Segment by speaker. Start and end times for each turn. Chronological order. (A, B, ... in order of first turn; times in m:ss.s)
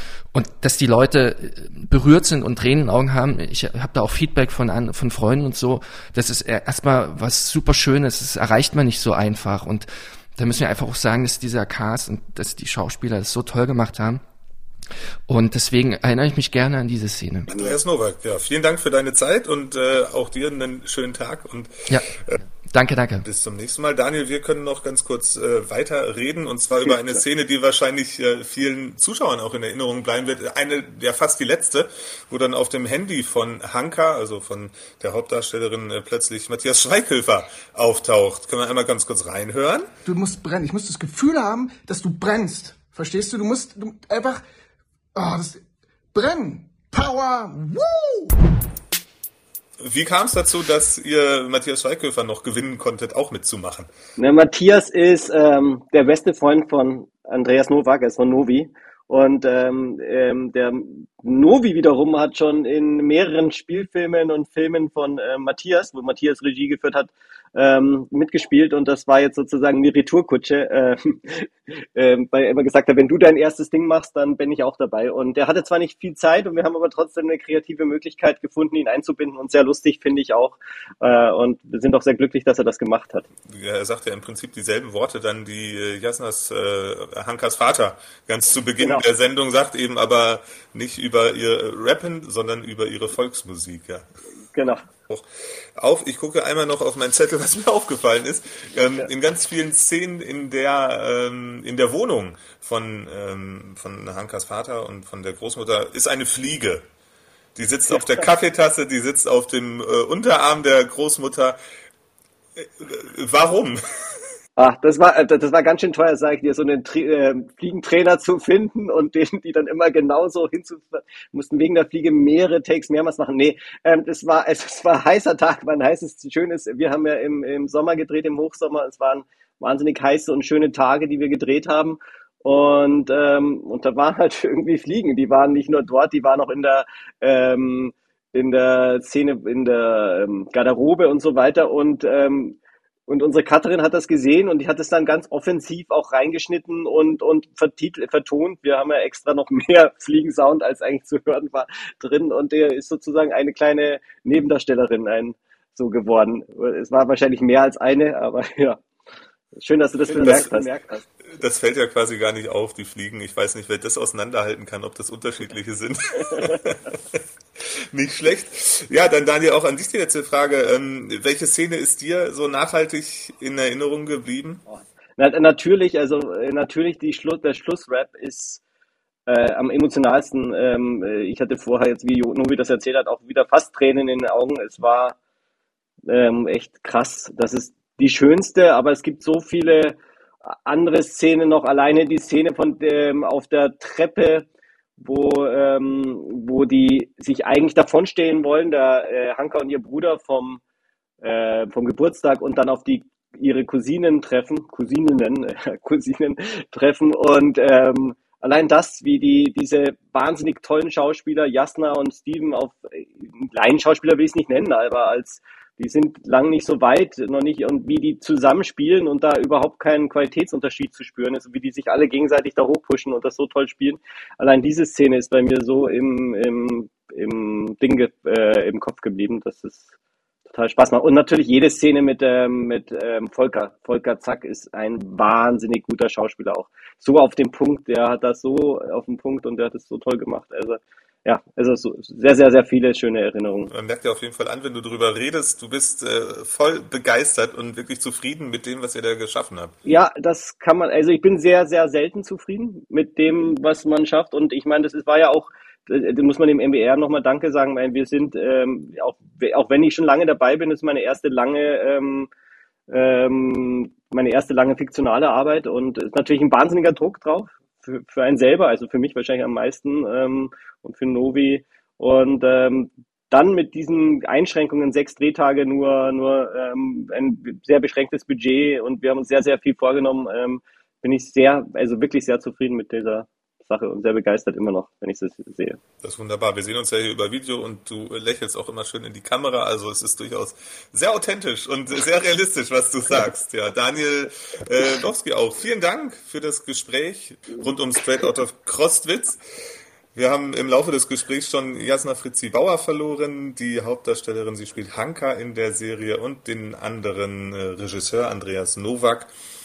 0:00.3-0:14.2 A
0:15.3-0:17.5 A
0:17.5-0:22.4 B
0:17.5-0:17.8 C
0:22.7-0:23.3 A
0:23.2-0:39.9 B
0:40.0-0:44.4 D
0:45.1-0:48.4 D
0:49.8-0:53.9 B
0:54.2-1:23.2 C
1:23.4-1:34.0 B
1:34.5-1:34.8 C
1:35.1-1:46.8 B
1:47.5-1:51.6 B
1:52.6-1:54.2 B
1:54.6-2:38.8 C
2:39.6-2:41.0 C
2:40.1-2:40.7 B
2:41.4-2:54.6 B
2:55.2-2:58.6 C
2:59.3-3:05.1 C
3:06.0-3:10.0 C
3:10.6-3:14.4 C
3:15.0-3:20.6 C
3:21.2-3:49.9 C
3:50.5-4:03.7 C
4:03.7-4:09.7 B
4:09.8-4:22.3 C
4:22.9-4:45.8 C
4:46.0-4:59.4 B
5:00.1-5:09.3 B